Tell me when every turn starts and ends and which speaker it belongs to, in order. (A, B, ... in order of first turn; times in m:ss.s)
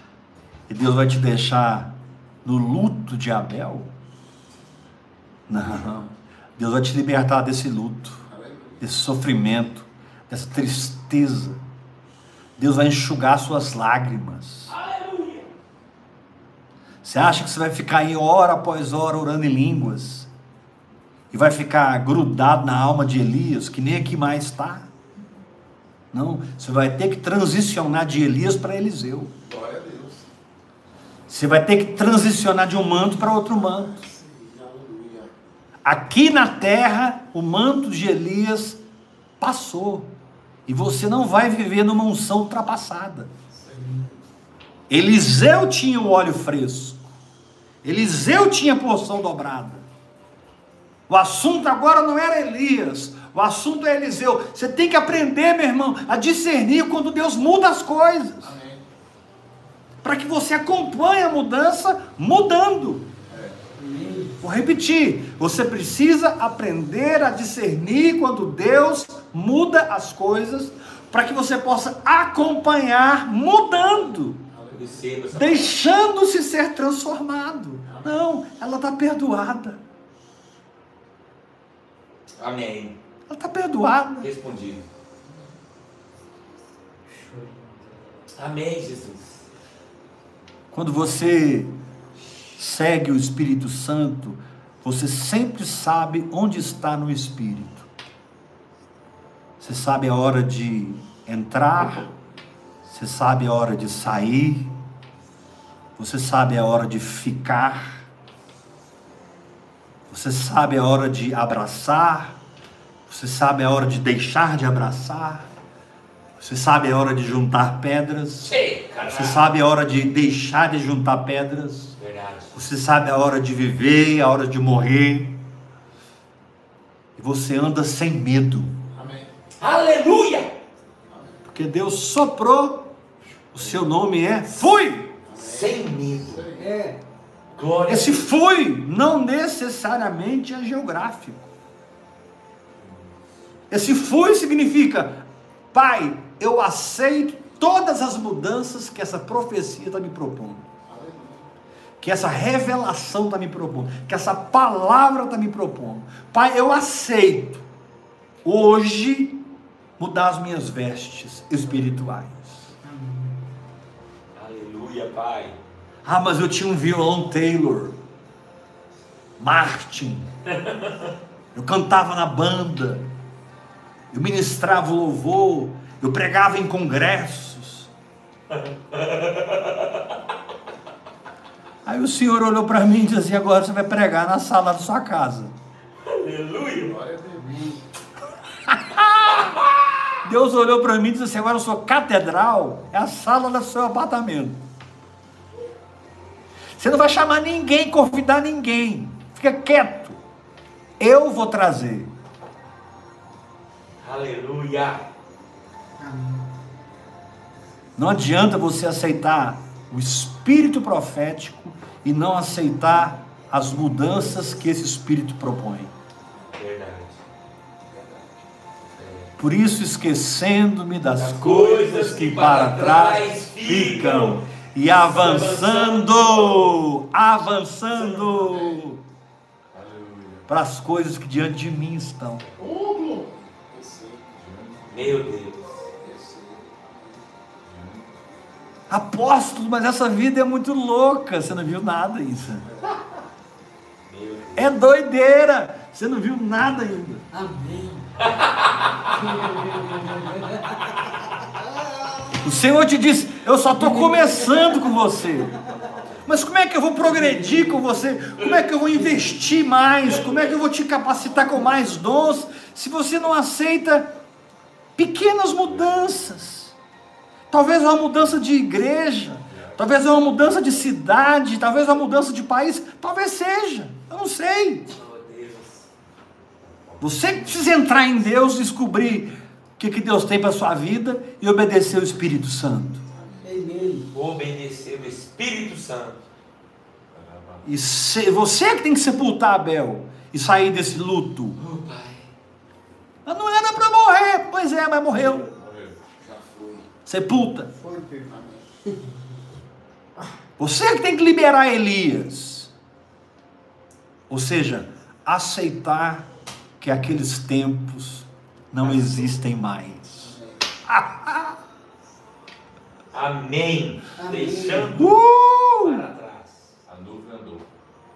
0:00.7-0:03.9 A
0:05.5-0:08.2 A
0:08.3-0:08.9 B
0:08.8-0:11.6 A
0:12.6-0:14.7 A
0:14.7-0:15.5 C
0:17.0-0:20.3 A
0:21.3-0:24.9 A
0:26.1-0:29.3 A
0:29.4-0:30.3 B
0:31.3-0:34.0 A
0:33.8-0:35.3 B
0:35.8-0:38.8 A
0:39.4-0:40.1 A
0:40.7-0:43.3 A
0:43.6-0:44.1 B
0:44.9-0:47.1 A
0:47.8-0:49.8 A
0:51.1-0:58.6 A
0:58.4-0:58.9 B
1:00.0-1:03.1 A
1:03.3-1:03.6 B
1:03.8-1:04.4 D
1:04.4-1:14.4 A
1:14.4-1:15.2 B
1:14.7-1:15.8 C
1:15.3-1:19.8 A
1:17.8-1:18.3 B
1:22.4-1:23.0 C
1:23.3-1:24.3 A
1:24.2-1:24.9 C
1:25.2-1:25.6 B
1:27.1-1:28.3 D
1:28.3-1:29.4 C
1:30.7-1:31.8 A
1:32.6-1:37.9 A
1:39.6-1:42.1 A
1:42.8-1:44.8 A
1:46.0-1:48.1 A
1:50.1-1:52.4 A
1:53.1-1:55.5 A
1:56.4-2:02.0 A
1:58.4-1:59.5 C
2:02.0-2:02.5 C
2:02.5-2:05.4 A
2:07.2-2:08.8 A
2:08.9-2:09.3 B
2:09.6-2:10.5 C
2:11.1-2:11.4 B
2:11.4-2:12.9 A
2:13.5-2:15.2 A
2:15.2-2:16.7 B
2:15.4-2:16.4 C
2:16.6-2:17.0 D
2:17.5-2:18.3 C
2:17.9-2:21.5 A
2:23.7-2:30.7 A
2:30.9-2:31.5 B
2:32.0-2:37.6 A
2:38.4-2:39.5 A
2:40.0-2:42.7 A
2:42.8-2:43.4 D
2:44.3-2:45.6 C
2:46.0-2:48.0 A
2:49.4-2:50.3 A
2:50.5-2:51.1 C
2:51.6-2:53.1 A
2:54.1-2:57.9 A
2:58.5-3:00.0 C
3:01.9-3:05.5 A
3:06.0-3:07.0 C
3:06.8-3:07.8 B
3:08.6-3:09.6 A
3:09.4-3:09.7 C
3:10.2-3:14.6 A
3:16.8-3:20.2 A
3:21.0-3:22.1 A
3:24.0-3:25.1 C
3:26.0-3:26.5 D
3:28.0-3:35.9 A
3:36.5-3:37.2 C
3:37.9-3:38.5 B
3:39.0-3:39.3 C
3:39.4-3:49.0 A
3:41.0-3:46.8 C
3:48.1-3:48.9 B
3:49.7-3:50.5 E
3:50.5-3:52.5 A
3:52.6-3:54.3 B
3:54.3-3:55.5 E
3:54.9-3:55.8 C
3:55.9-3:57.3 B
3:57.6-3:58.1 E
3:58.9-4:02.7 A
4:02.7-4:03.0 B
4:04.1-4:04.7 C
4:04.6-4:07.3 A
4:07.3-4:08.3 D
4:08.2-4:08.8 C
4:09.0-4:11.1 D
4:12.4-4:15.6 A
4:13.8-4:15.0 D
4:16.2-4:24.1 A
4:17.0-4:17.8 D
4:18.9-4:19.5 D
4:25.0-4:26.7 A
4:25.6-4:26.2 E
4:27.5-4:34.9 A
4:29.5-4:30.9 E
4:34.9-4:35.8 C
4:36.6-4:37.9 E
4:37.0-4:43.0 A
4:43.1-4:43.5 B
4:43.4-4:44.1 D
4:44.1-4:46.2 C
4:47.1-4:47.7 E
4:47.6-4:51.6 A
4:51.6-4:52.3 C
4:53.3-4:55.5 A
4:55.4-4:56.0 E
4:56.2-4:56.9 B
4:57.0-4:57.7 A
4:57.8-4:58.3 D
4:58.3-4:58.7 B
4:58.9-4:59.1 D
5:00.6-5:02.7 A
5:04.3-5:06.3 A
5:06.8-5:10.3 A
5:10.2-5:10.7 B
5:10.9-5:11.6 A
5:13.1-5:15.2 C
5:14.2-5:14.9 D
5:14.9-5:16.0 A
5:15.7-5:16.7 C
5:16.9-5:17.7 E